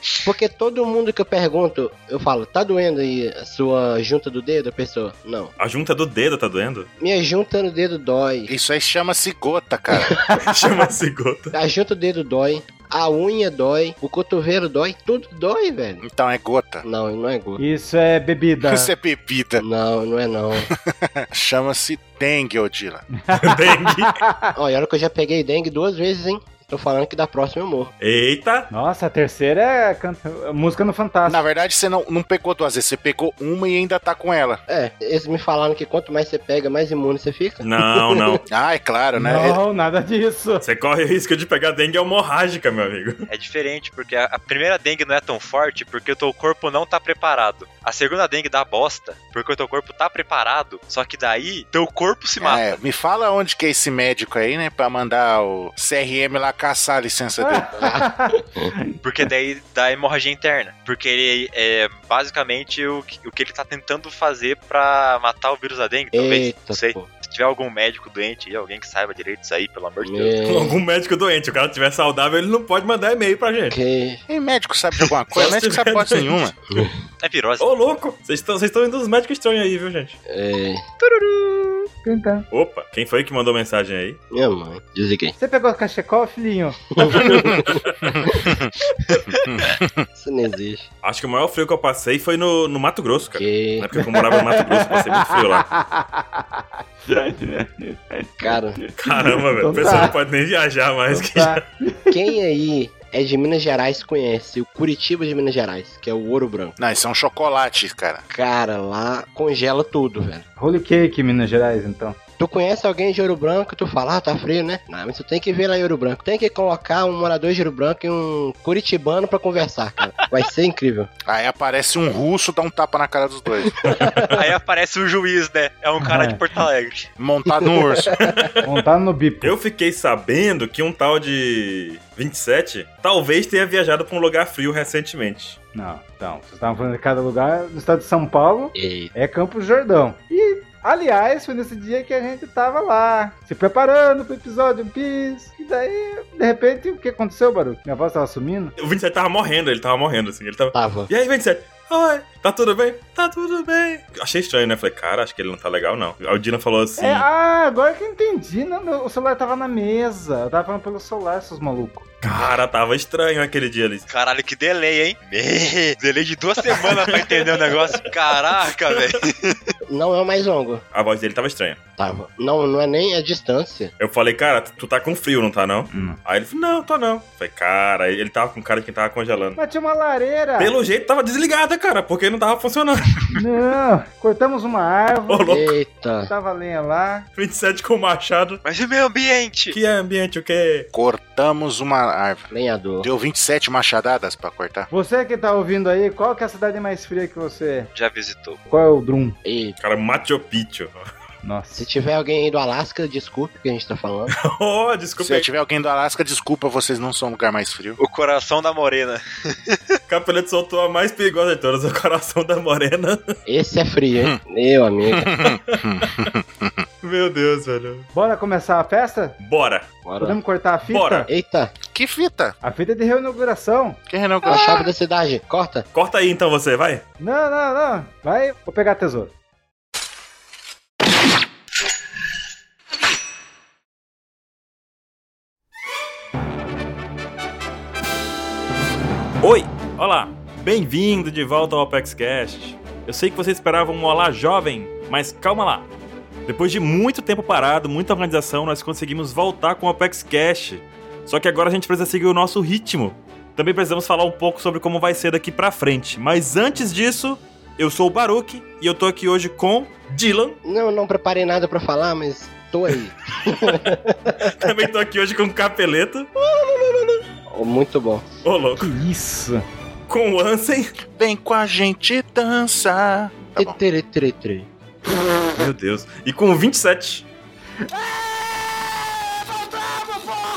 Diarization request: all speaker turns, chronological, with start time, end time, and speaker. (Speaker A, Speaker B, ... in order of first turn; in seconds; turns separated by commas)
Speaker A: 0.2-5.5, Speaker B: 5.6-6.9, Speaker A: 7.0-8.5, Speaker C: 8.5-10.2, Speaker D: 10.3-10.7, Speaker B: 10.4-11.5, Speaker A: 11.5-16.0, Speaker C: 16.0-16.8, Speaker A: 16.8-17.6, Speaker D: 17.6-18.9, Speaker C: 18.6-19.6, Speaker A: 19.6-20.7, Speaker C: 20.7-23.1, Speaker D: 23.3-24.5, Speaker B: 23.3-24.2, Speaker A: 24.5-27.9, Speaker B: 28.0-28.7, Speaker D: 28.7-31.4, Speaker C: 31.2-34.6, Speaker A: 34.7-38.4, Speaker B: 37.6-38.4, Speaker C: 38.5-39.6, Speaker D: 39.1-40.6, Speaker B: 40.6-43.2, Speaker E: 43.3-52.8, Speaker C: 52.4-58.0, Speaker D: 57.4-59.0, Speaker A: 57.8-58.7, Speaker E: 59.0-70.3, Speaker A: 66.1-67.1, Speaker A: 70.0-70.8, Speaker B: 70.4-73.8, Speaker A: 73.7-74.2, Speaker C: 74.3-76.5, Speaker B: 75.0-76.8, Speaker A: 76.7-77.0, Speaker E: 77.2-77.7, Speaker B: 77.6-80.2, Speaker A: 80.3-80.8, Speaker E: 81.2-81.8, Speaker D: 82.0-82.5, Speaker B: 82.5-84.2, Speaker A: 84.3-85.3, Speaker D: 85.4-87.4, Speaker A: 86.9-88.5, Speaker C: 88.4-88.7, Speaker E: 89.1-89.7, Speaker C: 89.4-90.0, Speaker A: 90.1-90.9, Speaker B: 91.0-95.7, Speaker A: 93.4-93.9, Speaker D: 94.0-100.2, Speaker A: 98.4-98.8, Speaker B: 99.0-101.6, Speaker D: 101.1-102.2, Speaker A: 102.1-106.8, Speaker C: 106.8-108.2, Speaker A: 108.3-110.4, Speaker D: 110.6-112.2, Speaker A: 112.4-121.1, Speaker C: 121.2-123.9, Speaker A: 123.6-124.3, Speaker B: 123.8-124.3, Speaker E: 124.3-127.1, Speaker D: 126.0-126.4, Speaker C: 127.2-128.2, Speaker A: 127.5-128.3, Speaker B: 128.2-128.7, Speaker D: 128.6-129.6, Speaker B: 129.4-135.6, Speaker D: 135.7-148.7, Speaker A: 138.7-139.1, Speaker B: 148.8-157.2, Speaker A: 150.7-151.1, Speaker D: 157.0-162.1, Speaker B: 162.2-164.1, Speaker E: 164.1-169.8, Speaker B: 166.9-167.5, Speaker A: 169.9-170.8, Speaker B: 170.9-171.8, Speaker A: 172.0-173.9, Speaker B: 174.0-179.6, Speaker D: 175.9-176.2, Speaker D: 179.6-180.7, Speaker B: 180.6-183.3, Speaker D: 183.3-185.6, Speaker B: 185.3-185.7, Speaker A: 185.5-186.3, Speaker D: 186.3-187.3, Speaker B: 187.4-188.6, Speaker E: 188.6-189.8, Speaker B: 189.7-190.9, Speaker C: 190.9-194.9, Speaker A: 192.5-193.1, Speaker D: 194.9-197.9, Speaker E: 197.9-198.6, Speaker D: 198.7-199.4, Speaker A: 199.4-199.8, Speaker B: 199.8-200.9, Speaker D: 201.4-201.8, Speaker A: 201.7-204.3, Speaker B: 204.3-205.5, Speaker C: 205.2-208.0, Speaker E: 208.0-210.0, Speaker B: 210.1-213.2, Speaker A: 213.4-215.3, Speaker C: 215.2-216.8, Speaker B: 217.0-218.1, Speaker D: 218.1-219.4, Speaker B: 219.4-219.9, Speaker A: 220.0-220.4, Speaker D: 220.2-221.3, Speaker B: 220.9-221.3, Speaker A: 221.3-221.7, Speaker C: 221.9-222.6, Speaker D: 222.6-224.0, Speaker C: 224.1-224.8, Speaker A: 224.4-225.8, Speaker B: 225.9-227.0, Speaker D: 227.2-229.3, Speaker B: 239.4-245.9, Speaker B: 246.5-260.6, Speaker A: 260.6-264.7, Speaker B: 264.4-266.3, Speaker A: 266.4-268.2, Speaker B: 268.4-268.9, Speaker D: 268.8-269.6, Speaker B: 270.1-270.9, Speaker C: 271.1-273.8, Speaker A: 273.6-274.7, Speaker B: 275.4-277.2